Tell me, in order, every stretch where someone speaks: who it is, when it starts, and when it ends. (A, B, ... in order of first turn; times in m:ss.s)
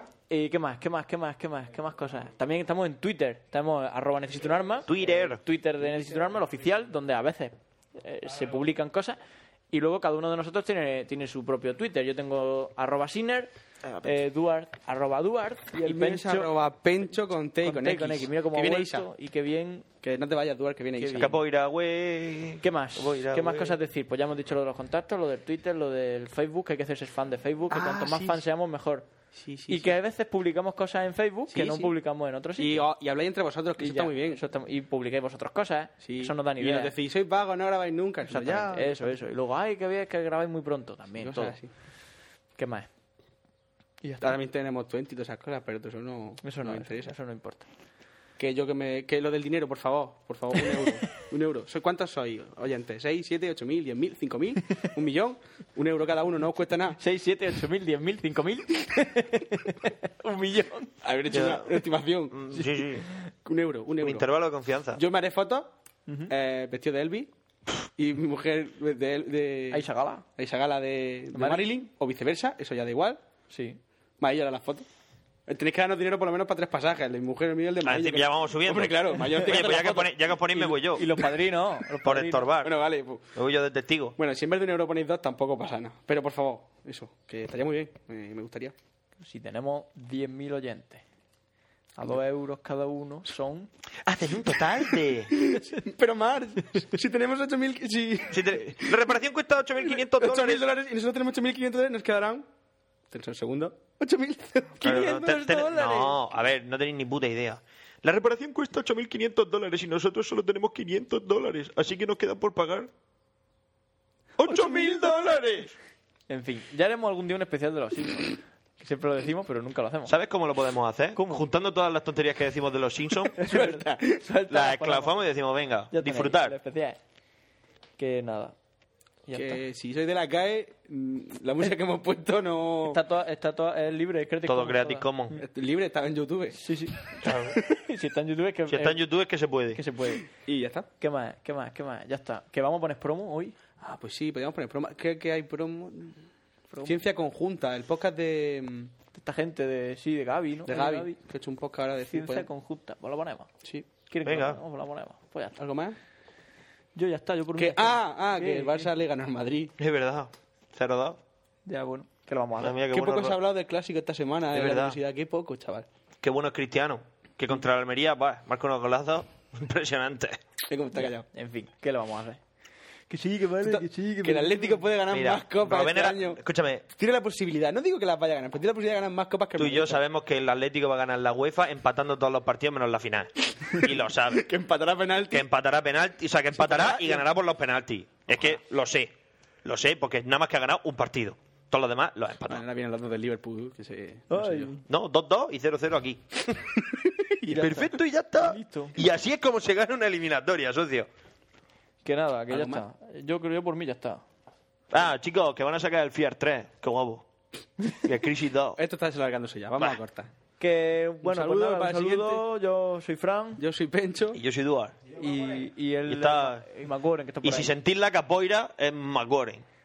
0:00.3-0:09.2 A
0:04.9-0:05.4 B
0:09.7-0:13.5 A
0:14.0-0:16.5 A
0:15.8-0:19.1 C
0:17.6-0:19.9 A
0:20.0-0:21.4 C
0:21.0-0:21.4 A
0:21.2-0:23.7 B
0:22.6-0:29.1 A
0:27.7-0:28.4 C
0:29.3-0:29.9 C
0:29.7-0:32.9 A
0:31.5-0:31.9 C
0:32.6-0:34.4 C
0:33.8-0:37.0 A
0:36.0-0:38.9 C
0:38.3-0:41.6 A
0:41.2-0:41.7 C
0:42.6-0:42.9 A
0:44.0-0:44.3 A
0:44.2-0:47.1 C
0:46.4-0:47.7 A
0:48.4-0:57.0 C
0:57.0-1:01.0 A
1:01.0-1:02.4 C
1:01.3-1:01.8 B
1:02.3-1:03.1 B
1:03.4-1:04.3 C
1:04.0-1:05.0 B
1:05.0-1:05.7 C
1:06.3-1:07.3 C
1:08.0-1:09.8 C
1:09.7-1:10.2 A
1:10.4-1:13.2 C
1:11.3-1:11.7 A
1:13.5-1:13.8 A
1:14.2-1:14.9 C
1:15.5-1:20.0 C
1:17.8-1:21.1 B
1:19.4-1:22.5 A
1:22.0-1:22.7 B
1:22.6-1:23.3 C
1:23.4-1:24.2 B
1:24.2-1:28.8 C
1:29.2-1:31.0 A
1:32.0-1:33.7 A
1:34.1-1:35.4 B
1:35.3-1:38.9 C
1:38.3-1:40.6 B
1:39.9-1:42.5 C
1:43.1-1:46.1 C
1:44.8-1:52.9 B
1:54.4-1:55.7 B
1:54.7-1:55.0 A
1:56.3-2:00.1 A
2:00.1-2:03.4 B
2:01.2-2:01.4 A
2:03.4-2:05.1 A
2:03.4-2:04.2 C
2:04.5-2:06.6 B
2:05.9-2:07.0 A
2:08.0-2:08.6 A
2:09.3-2:09.6 A
2:09.3-2:13.0 C
2:12.9-2:15.4 A
2:14.5-2:15.4 B
2:15.4-2:16.6 C
2:16.5-2:19.0 A
2:17.2-2:17.6 B
2:18.7-2:19.8 B
2:19.7-2:20.3 A
2:20.4-2:20.9 C
2:21.0-2:23.6 A
2:23.8-2:26.2 C
2:26.7-2:27.0 A
2:26.8-2:28.9 C
2:29.1-2:31.2 A
2:30.7-2:32.5 C
2:32.1-2:33.5 A
2:34.1-2:35.6 A
2:34.2-2:34.6 B
2:35.6-2:36.0 C
2:37.0-2:38.9 A
2:37.6-2:39.7 C
2:39.8-2:41.2 B
2:41.7-2:42.8 A
2:42.6-2:43.4 B
2:42.9-2:45.9 C
2:44.5-2:45.0 B
2:46.2-2:50.4 B
2:50.7-2:51.2 C
2:51.0-2:52.4 A
2:53.1-2:54.8 A
2:53.6-2:56.4 C
2:55.1-2:56.8 B
2:56.9-3:00.0 C
2:59.6-3:04.4 B
3:03.8-3:05.5 C
3:05.3-3:09.1 B
3:06.6-3:07.2 C
3:09.6-3:12.6 B
3:12.5-3:14.7 C
3:14.3-3:14.8 A
3:14.9-3:16.6 B
3:16.8-3:17.7 C
3:17.5-3:21.1 B
3:17.5-3:19.0 A
3:22.0-3:24.2 A
3:22.5-3:22.8 C
3:24.9-3:27.3 B
3:28.0-3:28.8 B
3:28.8-3:30.3 C
3:30.6-3:33.6 A
3:31.2-3:32.4 C
3:33.6-3:34.4 C
3:34.3-3:35.0 B
3:35.1-3:37.7 A
3:36.1-3:36.7 B
3:37.4-3:39.6 B